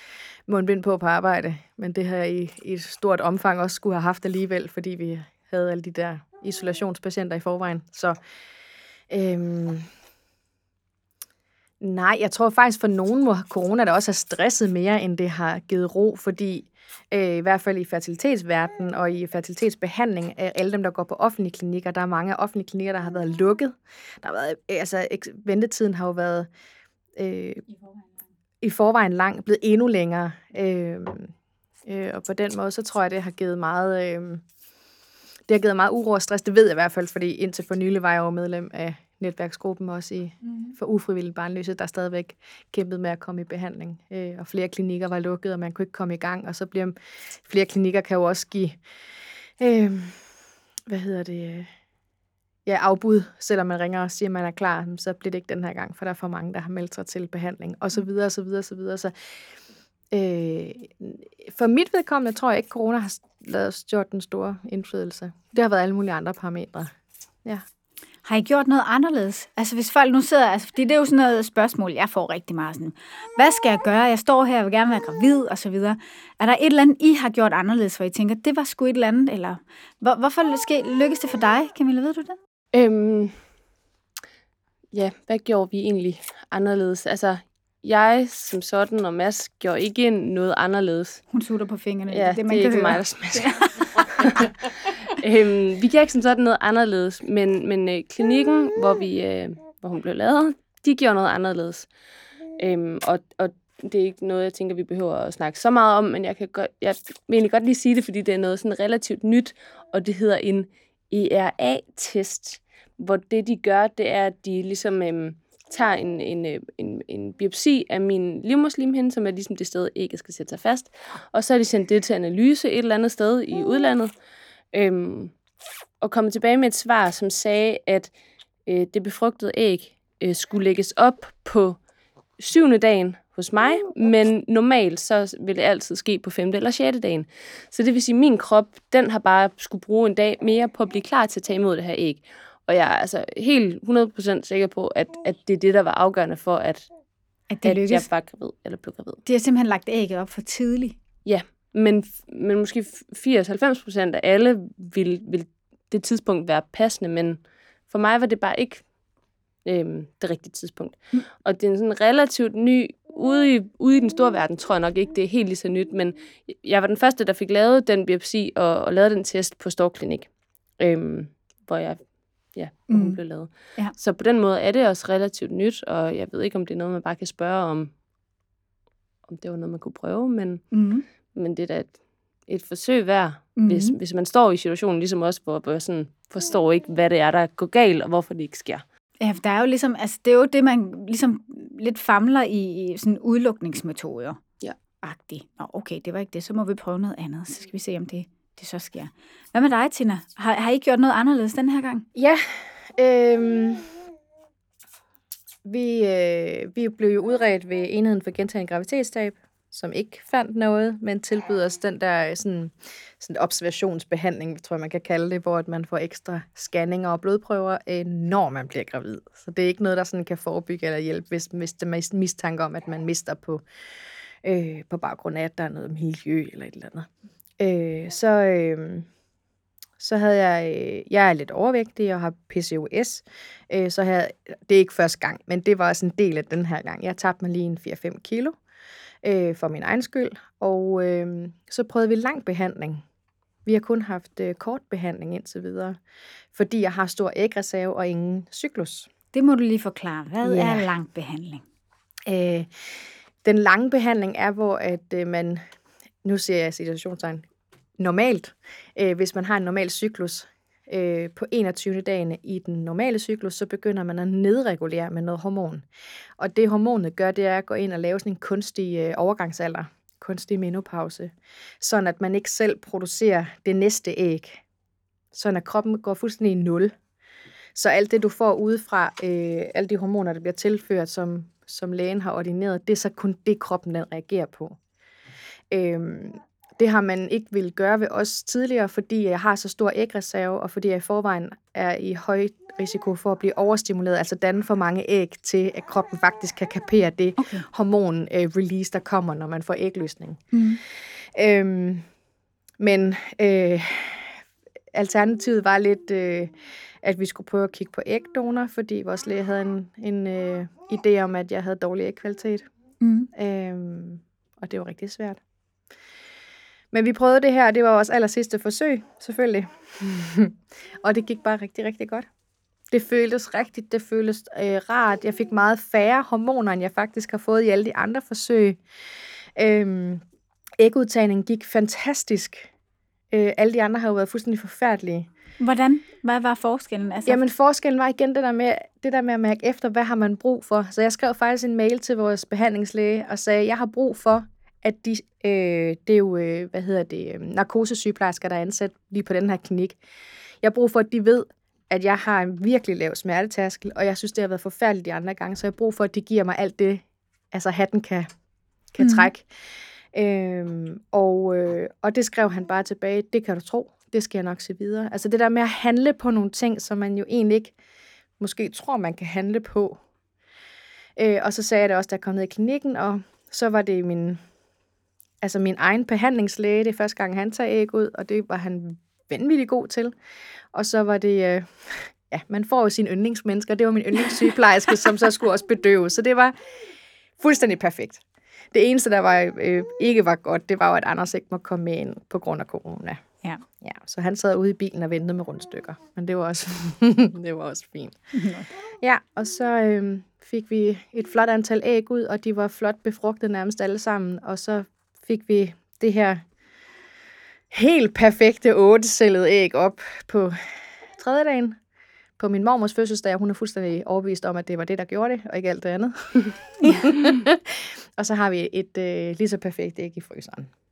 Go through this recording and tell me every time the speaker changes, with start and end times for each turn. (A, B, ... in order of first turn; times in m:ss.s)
0:00.5-0:08.2 A
0:09.1-0:09.9 A
0:11.8-0:26.5 A
0:27.2-0:27.6 A
0:28.6-0:31.3 A
0:31.8-0:34.4 A
0:35.5-0:48.8 A
0:49.6-0:50.2 A
0:50.9-0:51.7 A
0:52.6-0:59.1 A
1:00.1-1:06.9 A
1:08.2-1:22.4 B
1:22.7-1:23.4 C
1:24.9-1:31.2 C
1:31.3-1:33.7 B
1:32.1-1:33.1 C
1:33.1-1:33.4 A
1:34.2-1:34.5 C
1:35.1-1:41.9 C
1:42.6-2:04.1 C
2:04.7-2:05.3 C
2:06.0-2:08.1 C
2:08.6-2:11.8 C
2:12.4-2:26.9 C
2:27.5-2:28.1 B
2:27.6-2:29.2 C
2:29.2-2:31.0 B
2:31.2-2:38.9 C
2:39.6-2:57.9 C
2:52.9-2:53.2 B
2:59.3-3:00.7 C
3:00.7-3:01.0 B
3:01.3-3:08.8 C
3:03.6-3:04.0 B
3:09.2-3:14.4 B
3:15.0-3:22.0 B
3:22.1-3:23.9 A
3:25.6-3:43.6 A
3:44.4-3:47.1 A
3:47.6-3:49.1 A
3:50.0-3:58.6 A
3:59.2-4:03.0 A
4:03.6-4:06.0 A
4:06.5-4:09.1 A
4:09.3-4:11.6 B
4:10.4-4:10.9 A
4:12.3-4:15.6 A
4:16.2-4:17.4 A
4:18.0-4:25.8 A
4:26.4-4:34.6 A
4:35.3-4:36.9 A
4:37.7-4:44.8 A
4:45.7-5:02.0 A
4:57.4-4:57.6 B
5:00.5-5:00.8 B
5:02.8-5:04.4 A
5:04.9-5:12.7 A
5:13.0-5:13.3 B
5:13.3-5:15.4 A
5:16.9-5:22.3 A
5:22.9-5:28.8 A
5:29.6-5:30.2 A
5:30.8-5:32.7 A
5:33.3-5:35.3 A
5:35.6-5:37.4 B
5:37.3-5:50.0 A
5:50.6-5:58.3 A
5:58.9-5:59.5 A
5:59.0-5:59.3 B
6:00.1-6:07.7 A
6:08.4-6:10.0 A
6:11.2-6:14.4 A
6:15.4-6:20.1 A
6:20.7-6:26.5 A
6:27.4-6:33.2 A
6:33.8-6:38.2 A
6:38.3-6:38.7 B
6:38.9-6:46.4 A
6:47.7-6:51.8 A
6:52.4-7:00.7 A
6:56.8-6:57.1 B